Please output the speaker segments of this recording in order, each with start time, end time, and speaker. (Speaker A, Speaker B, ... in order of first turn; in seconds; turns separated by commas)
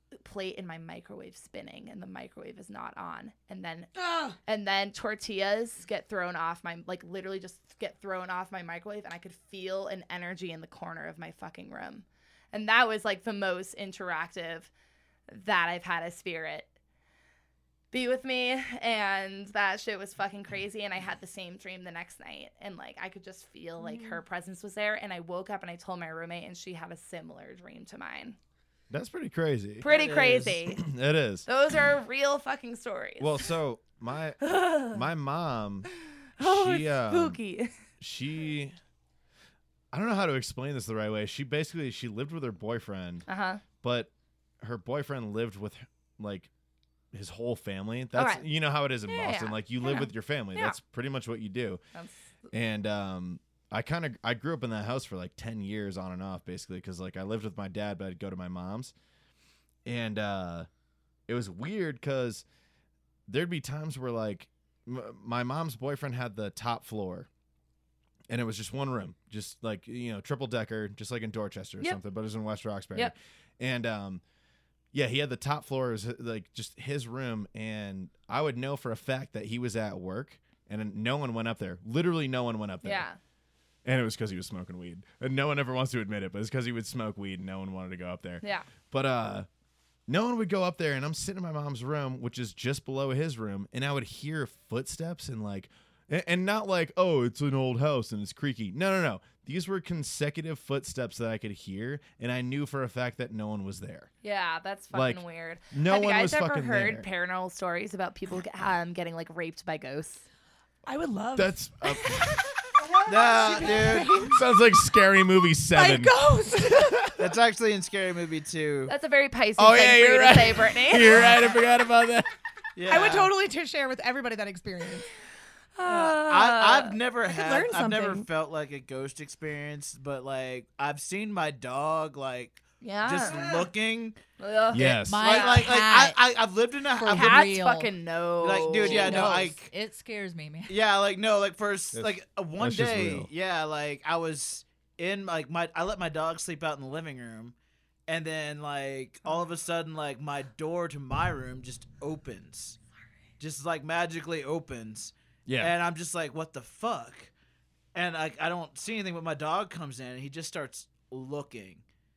Speaker A: 0.2-14.7, Speaker B: 4.0-4.4, Speaker A: 15.3-16.7, Speaker A: 17.9-28.4, Speaker B: 23.8-24.2, Speaker C: 28.9-29.9, Speaker A: 29.8-30.9, Speaker D: 29.9-30.5, Speaker C: 30.6-31.5, Speaker A: 31.4-33.5, Speaker C: 33.2-35.9, Speaker A: 34.4-35.0, Speaker A: 36.4-37.7, Speaker C: 36.4-37.4, Speaker C: 38.0-38.7, Speaker C: 39.9-43.3, Speaker A: 43.3-43.6, Speaker C: 43.8-46.5, Speaker C: 47.1-51.8, Speaker A: 48.1-48.4, Speaker A: 49.1-50.8, Speaker A: 51.9-52.5, Speaker C: 52.5-58.9, Speaker C: 59.9-60.7, Speaker C: 61.3-62.4, Speaker C: 63.3-67.3, Speaker C: 68.3-74.2, Speaker C: 74.9-83.1, Speaker A: 82.8-83.2, Speaker C: 83.8-89.5, Speaker A: 88.4-88.7, Speaker C: 90.1-104.1, Speaker A: 104.2-110.2, Speaker C: 104.9-107.1, Speaker B: 110.9-114.4, Speaker C: 111.4-112.4, Speaker D: 113.1-114.2, Speaker C: 114.2-116.1, Speaker B: 115.7-117.2, Speaker D: 117.2-118.9, Speaker A: 118.9-121.5, Speaker C: 119.6-122.3, Speaker D: 122.8-123.3, Speaker B: 122.9-125.1, Speaker A: 125.8-127.0, Speaker D: 125.9-134.2, Speaker B: 127.3-128.3, Speaker A: 132.8-133.6, Speaker A: 134.4-135.6, Speaker C: 134.7-135.3, Speaker E: 135.1-136.2, Speaker D: 135.2-137.5, Speaker E: 136.9-137.9, Speaker A: 137.0-139.4, Speaker D: 138.4-139.7, Speaker E: 138.8-140.7, Speaker D: 140.7-147.5, Speaker C: 141.9-143.3, Speaker D: 148.1-152.8, Speaker D: 153.4-157.3, Speaker C: 155.4-155.7, Speaker D: 157.9-161.8